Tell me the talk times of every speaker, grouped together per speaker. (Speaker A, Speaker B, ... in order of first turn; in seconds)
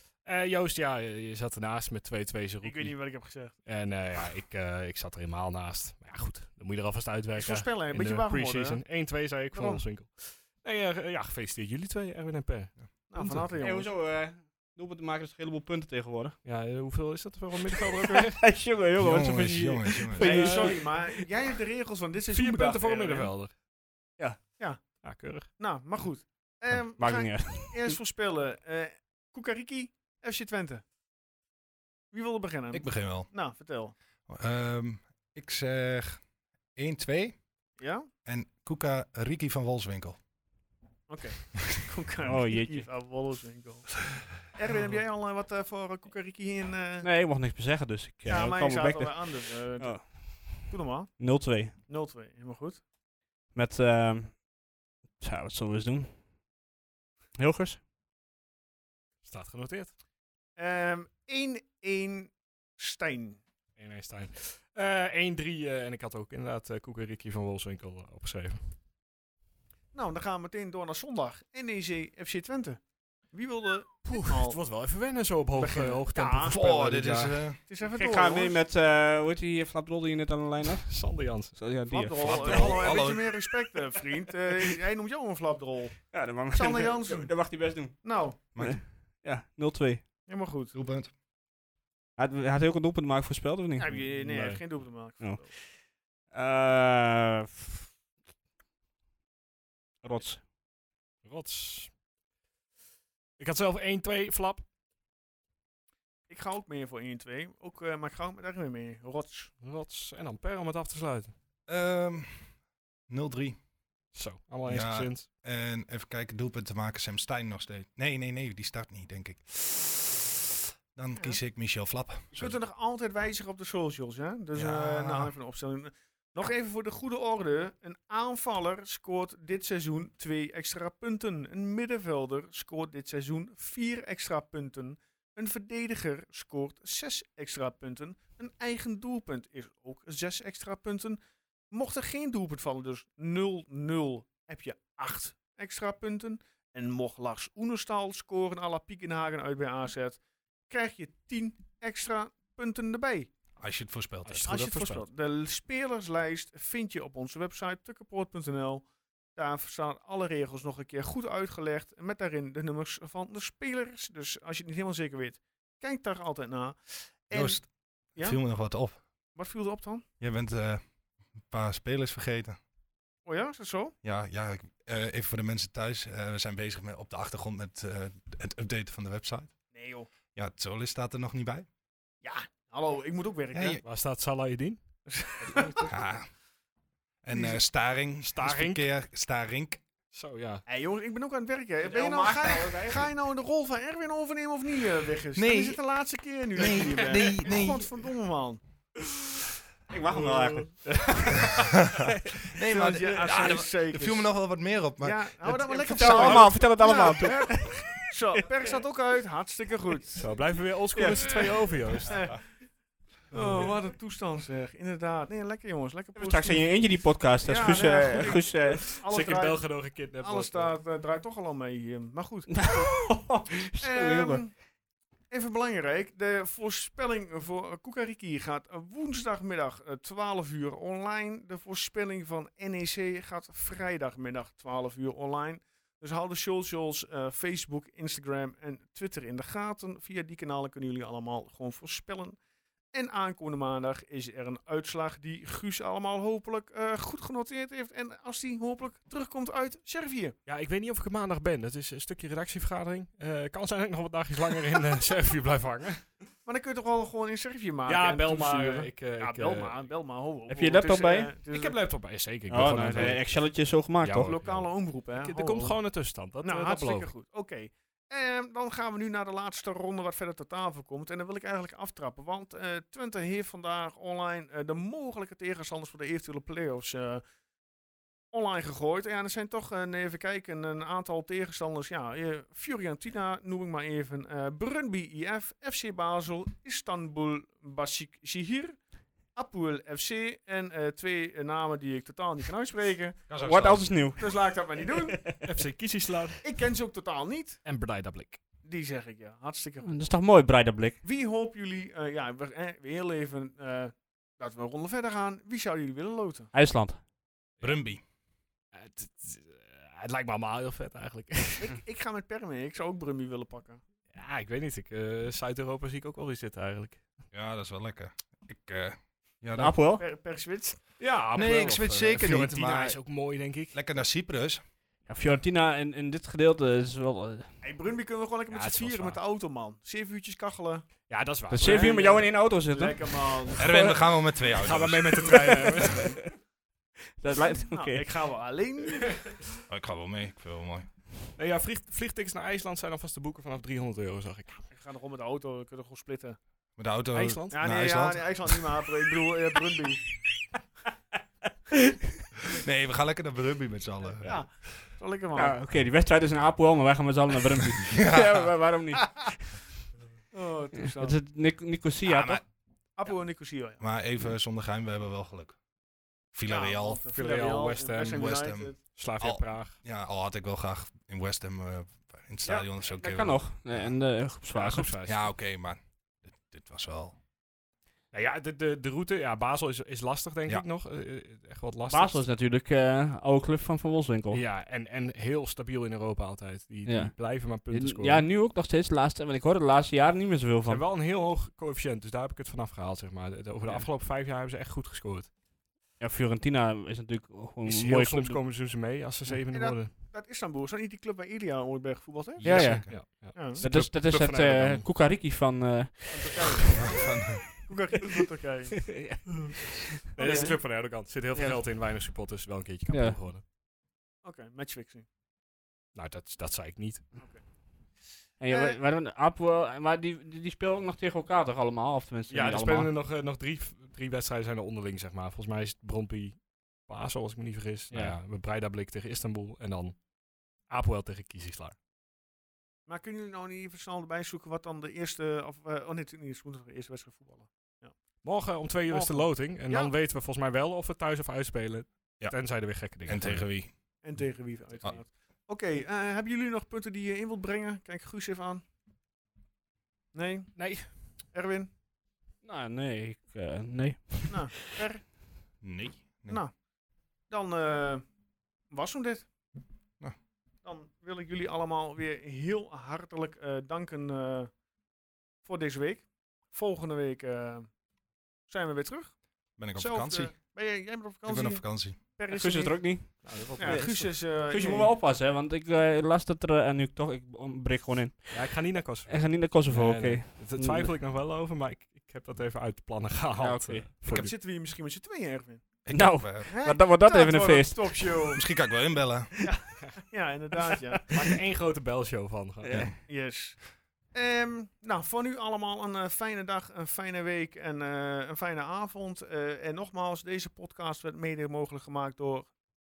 Speaker A: 0.2-13.4, 16.4-18.4, 20.2-20.8, 22.3-23.5, 25.0-25.5, 59.2-59.9, 63.8-68.7, 74.1-77.4, 80.8-81.6, 93.9-94.6, 101.2-102.0, 103.4-104.6, 109.6-111.3, 114.1-115.3, 154.2-155.1, 183.8-184.8, 185.5-185.8, 188.2-188.8, 190.1-190.6, 205.9-206.5, 210.2-212.4, 213.3-213.6, 218.8-220.8, 250.4-256.1, 257.9-259.7, 261.5-263.4, 264.0-267.1, 295.4-296.4, 297.6-298.4, 308.7-311.8, 314.1-317.0, 321.0-323.8, 328.5-329.2, 331.1-332.2, 334.5-336.3, 341.4-344.7, 347.1-347.6, 367.1-368.3, 368.9-369.8, 374.5-375.3, 378.1-382.2, 384.3-388.2, 390.6-395.3, 397.6-399.9, 402.5-404.9, 410.1-413.4, 415.9-417.1, 422.3-431.8, 438.2-443.6, 450.6-450.9, 473.2-474.2, 478.3-484.3, 491.1-492.8
Speaker B: 2.6-3.5, 7.3-8.8, 9.5-9.8, 13.1-13.9, 20.2-23.3, 24.6-30.8, 32.1-33.9, 37.8-38.1, 41.1-47.1, 48.2-52.8, 60.5-63.4, 69.9-74.6, 75.6-76.7, 77.6-78.6, 81.9-88.4, 90.3-90.7, 93.8-95.5, 106.3-109.5, 122.3-141.2, 141.7-153.3, 154.4-168.7, 169.3-170.0, 173.2-173.9, 179.7-180.1, 182.2-183.8, 185.1-185.9, 187.3-187.6, 190.7-198.6, 200.8-201.5, 202.7-204.4, 205.0-210.2, 212.1-212.5, 213.3-222.7, 223.8-224.6, 225.3-242.4, 242.9-250.3, 256.4-261.8, 264.2-265.8, 266.4-277.2, 278.3-293.2, 294.2-295.2, 296.4-297.6, 298.6-299.9, 301.0-306.5, 311.6-313.8, 320.0-320.8, 327.6-330.9, 331.6-333.8, 337.7-339.3, 344.7-346.4, 347.5-350.0, 354.2-355.6, 359.0-359.3, 360.3-361.2, 362.9-363.8, 366.5-368.8, 399.5-403.6, 406.1-409.2, 410.1-410.6, 414.2-415.1, 417.1-417.4, 418.5-418.8, 432.9-438.2, 438.9-439.9, 444.0-448.6, 450.1-451.7, 454.3-455.1, 456.3-456.6, 457.3-458.0, 458.7-459.3, 460.6-464.5, 465.4-467.8, 468.4-474.9, 484.0-485.6, 486.4-488.4, 489.4-491.1, 493.0-502.5
Speaker C: 13.6-16.4, 18.1-21.2, 27.0-27.9, 42.2-42.9, 47.0-50.6, 51.2-51.7, 53.5-54.5, 55.2-56.1, 57.4-57.8, 77.9-83.1, 86.1-90.1, 92.2-93.9, 95.2-97.9, 100.0-100.5, 191.8-193.1, 199.9-201.4, 205.7-208.0, 210.9-211.6, 216.2-219.0, 222.5-224.4, 260.5-261.3, 262.5-264.3, 293.4-295.4, 299.8-301.0, 306.5-307.0, 319.5-320.0, 325.1-327.5, 331.5-333.3, 335.3-335.9, 337.2-338.1, 355.4-359.6, 361.0-362.4, 372.9-374.9, 381.9-384.4, 386.9-390.8, 396.0-398.4, 402.4-406.9, 408.9-410.6, 411.3-411.6, 412.9-413.2, 418.4-422.9, 427.9-428.1, 452.4-454.6, 472.3-480.9, 483.4-483.9, 485.9-488.2, 492.6-492.9
Speaker D: 19.0-20.5, 32.7-33.3, 34.3-36.2, 36.7-37.4, 38.2-40.2, 76.5-77.6, 82.2-83.4, 88.5-88.8, 90.7-91.1, 111.7-112.6, 113.1-113.6, 114.6-120.3, 120.9-122.6, 124.5-125.3, 153.6-154.5, 167.3-169.0, 170.2-170.8, 171.4-172.6, 174.0-179.5, 180.3-181.7, 183.5-183.8, 185.8-186.3, 187.2-189.8, 195.3-195.8, 196.6-198.0, 202.5-205.7, 293.3-294.1, 307.6-308.0, 317.3-319.8, 321.3-323.0, 323.7-324.6, 333.6-335.5, 339.7-340.9, 346.8-348.6, 352.5-354.7, 357.9-358.5, 362.1-362.4, 363.8-365.6, 366.3-367.0, 368.1-373.9, 375.0-377.2, 402.4-403.0, 403.6-403.9, 406.8-407.5, 442.2-443.7, 455.6-456.4, 469.6-470.4, 471.2-472.0, 484.1-484.3, 485.8-486.5, 488.3-489.4